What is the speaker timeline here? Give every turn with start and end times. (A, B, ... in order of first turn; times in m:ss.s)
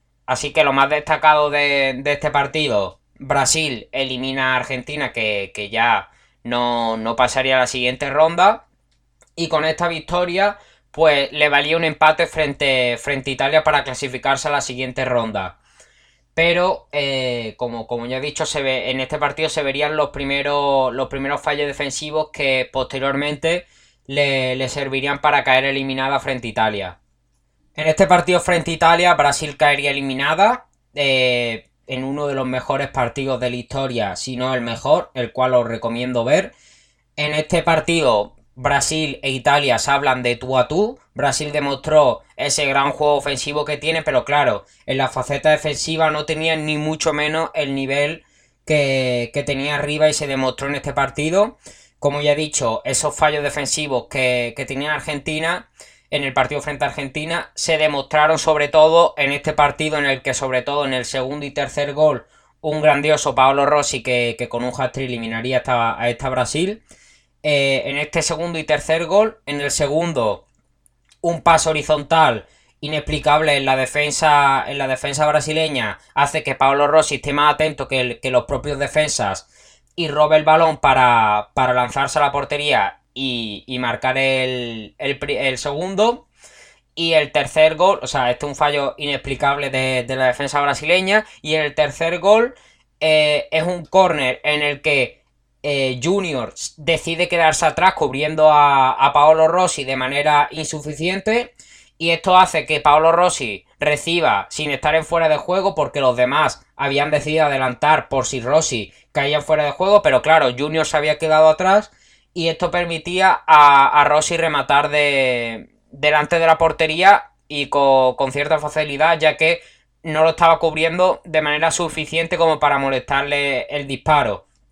0:00.3-0:08.6 A
0:09.4-0:15.6 A
0:16.3-0:27.0 A
0:27.7-0:36.5 A
0:37.2-1:06.8 A
1:07.4-1:10.4 A
1:11.2-1:26.2 A
1:27.0-2:04.4 A